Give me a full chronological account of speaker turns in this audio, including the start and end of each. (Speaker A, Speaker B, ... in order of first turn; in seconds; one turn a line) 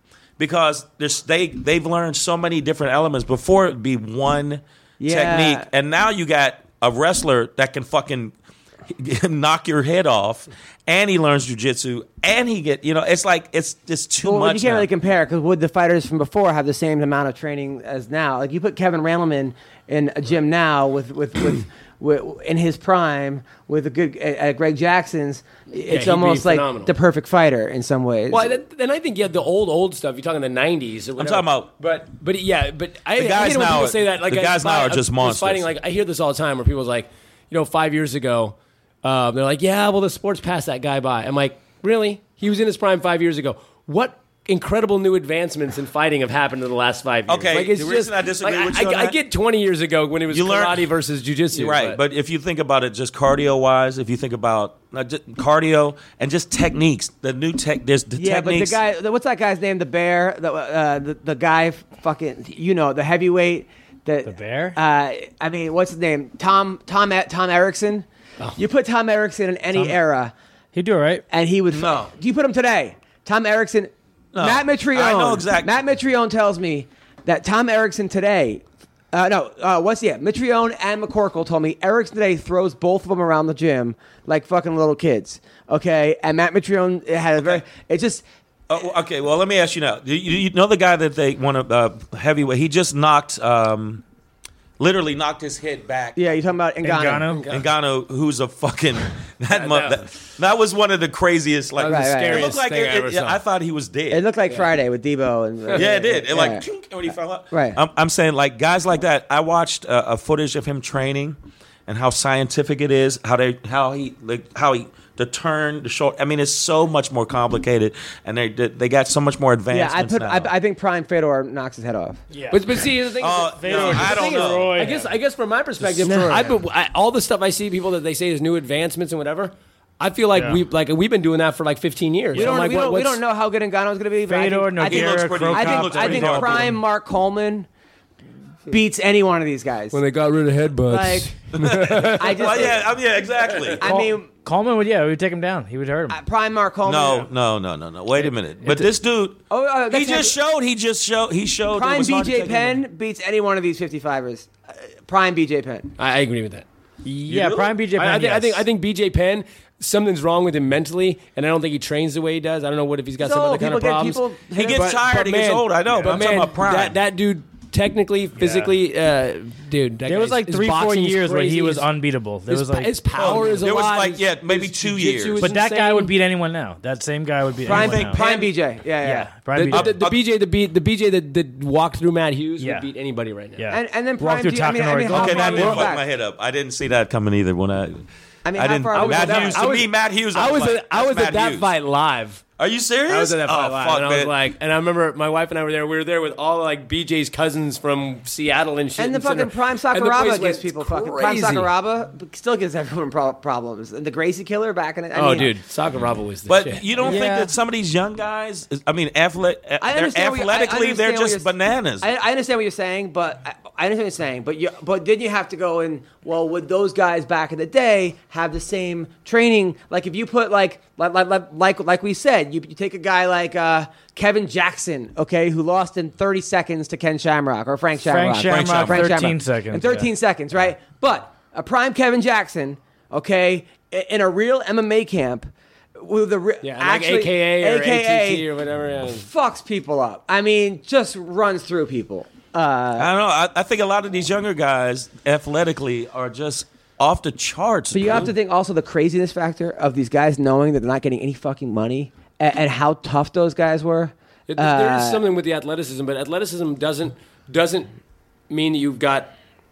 Speaker A: 0.4-8.3
Speaker B: 5.0-5.7
Speaker A: 8.9-14.9
Speaker B: 14.2-28.6
Speaker C: 25.8-26.9
Speaker C: 28.3-52.0
Speaker A: 31.2-31.7
Speaker A: 33.1-35.7
Speaker A: 47.3-49.2
Speaker A: 50.3-50.9
Speaker A: 51.5-58.8
Speaker B: 58.2-70.3
Speaker D: 64.3-64.8
Speaker D: 69.7-70.0
Speaker D: 70.7-71.2
Speaker B: 71.3-88.2
Speaker A: 71.7-72.1
Speaker A: 74.3-75.7
Speaker A: 88.7-94.0
Speaker A: 94.8-96.2
Speaker B: 96.2-97.3
Speaker D: 96.8-97.5
Speaker C: 97.3-97.7
Speaker A: 97.5-104.3
Speaker C: 99.5-100.1
Speaker C: 101.8-103.4
Speaker B: 101.8-102.5
Speaker B: 104.1-106.7
Speaker A: 105.8-120.5
Speaker B: 107.5-107.8
Speaker B: 119.7-122.2
Speaker D: 122.3-122.8
Speaker C: 122.5-133.2
Speaker A: 123.2-124.8
Speaker D: 123.6-125.1
Speaker B: 126.0-126.5
Speaker D: 130.3-130.6
Speaker B: 132.3-137.7
Speaker D: 134.3-136.7
Speaker A: 134.9-136.8
Speaker B: 138.7-140.0
Speaker C: 139.9-142.8
Speaker B: 140.9-141.3
Speaker A: 141.5-143.8
Speaker B: 142.1-142.8
Speaker C: 143.5-143.8
Speaker B: 143.8-144.3
Speaker D: 143.8-146.2
Speaker B: 146.1-147.3
Speaker A: 146.9-152.8
Speaker C: 148.7-148.9
Speaker B: 149.5-150.4
Speaker B: 151.7-155.9
Speaker C: 156.0-156.7
Speaker D: 157.0-158.7
Speaker A: 157.3-157.7
Speaker C: 157.9-171.9
Speaker B: 163.2-164.9
Speaker A: 164.6-167.0
Speaker D: 166.0-166.2
Speaker D: 168.4-168.8
Speaker D: 170.1-173.6
Speaker C: 172.5-176.1
Speaker A: 173.2-175.5
Speaker D: 175.4-178.2
Speaker A: 177.7-178.4
Speaker B: 177.7-179.3
Speaker D: 179.0-180.0
Speaker C: 179.5-183.7
Speaker A: 179.7-180.2
Speaker D: 182.6-182.9
Speaker D: 183.6-185.9
Speaker B: 183.7-186.0
Speaker A: 185.1-191.7
Speaker B: 188.4-189.7
Speaker C: 188.9-192.4
Speaker A: 192.6-194.3
Speaker C: 193.1-201.7
Speaker B: 199.0-205.5
Speaker C: 205.1-207.2
Speaker A: 206.5-212.1
Speaker D: 207.0-207.5
Speaker B: 209.8-238.5
Speaker D: 228.1-230.1
Speaker A: 228.4-229.3
Speaker C: 236.6-239.3
Speaker B: 239.0-243.1
Speaker A: 243.0-248.3
Speaker B: 247.9-255.2
Speaker C: 254.5-257.9
Speaker C: 258.5-259.3